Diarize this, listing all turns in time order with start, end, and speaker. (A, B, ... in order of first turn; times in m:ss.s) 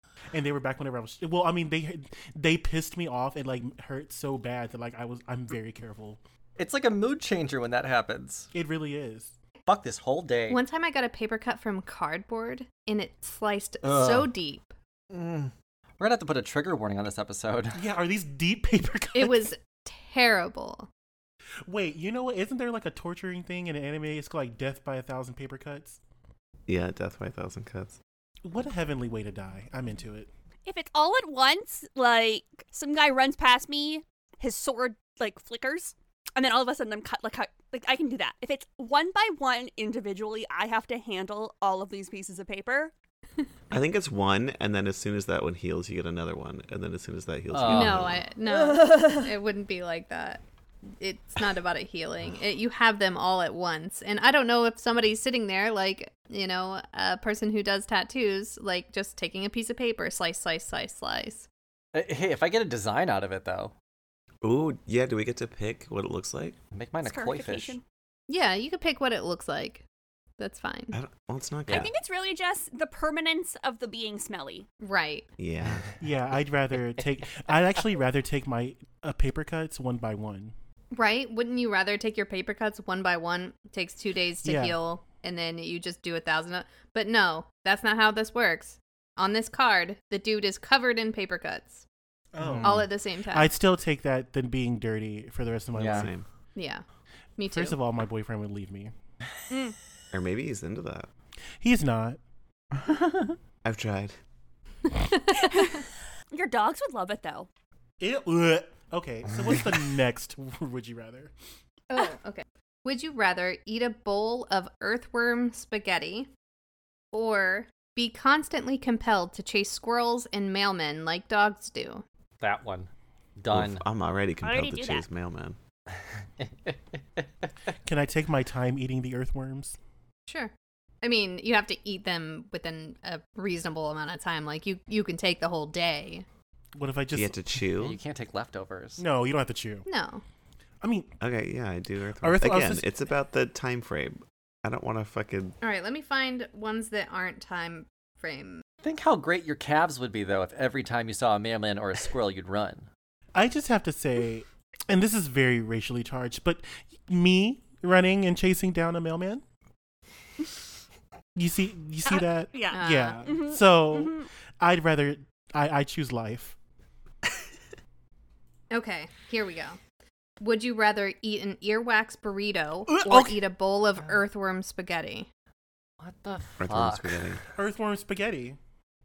0:00.3-0:06.2 A
0:06.6-0:08.5 B
0:08.5-0:09.3 A
0:09.7-0:10.6 B
0:10.5-0:14.7 C
0:13.8-0:14.3 B
0:15.1-0:17.8 B
0:17.7-0:19.5 A
0:19.1-0:20.9 C
0:21.7-0:26.0 A
0:26.7-0:28.0 D
0:28.4-0:30.3 A
0:30.6-0:42.9 E
0:43.7-0:48.2 D
0:47.5-0:48.1 B
0:47.7-0:50.4 C
0:48.5-0:49.3 E
0:51.0-1:01.5 C
1:01.9-1:03.7 B
1:04.4-1:06.6 D
1:06.7-1:07.8 B
1:07.0-1:07.8 E
1:08.3-1:09.8 C
1:10.4-1:10.9 C
1:10.9-1:11.9 D
1:11.7-1:14.6 E
1:14.8-1:15.3 C
1:15.4-1:15.9 D
1:16.0-1:20.5 A
1:20.9-1:31.8 C
1:24.4-1:24.8 A
1:32.3-1:36.1 A
1:32.4-1:32.8 B
1:32.6-1:33.5 C
1:35.8-1:36.1 B
1:35.9-1:36.2 D
1:36.5-1:36.8 C
1:37.4-1:37.8 C
1:37.5-1:38.9 A
1:39.5-1:39.7 E
1:40.1-1:41.1 D
1:41.6-1:42.2 A
1:43.6-1:44.1 D
1:45.3-1:47.5 E
1:48.0-1:51.3 A
1:51.9-1:56.3 C
1:57.1-2:02.0 C
2:02.4-2:03.8 B
2:03.5-2:05.6 D
2:04.4-2:05.0 E
2:06.4-2:07.7 B
2:07.8-2:09.8 A
2:10.3-2:16.2 C
2:16.8-2:17.4 A
2:17.1-2:18.0 D
2:17.8-2:19.0 B
2:19.0-2:19.8 A
2:19.8-2:20.2 C
2:20.8-2:21.1 A
2:21.2-2:25.6 D
2:22.2-2:22.8 A
2:25.6-2:28.6 C
2:28.8-2:32.9 B
2:33.4-2:39.4 A
2:41.3-2:46.6 A
2:42.0-2:44.3 E
2:42.7-2:43.2 C
2:48.7-2:49.8 C
2:50.4-2:55.3 C
2:52.9-2:53.4 A
2:56.0-2:57.3 B
2:56.6-2:57.4 D
2:57.5-2:58.6 A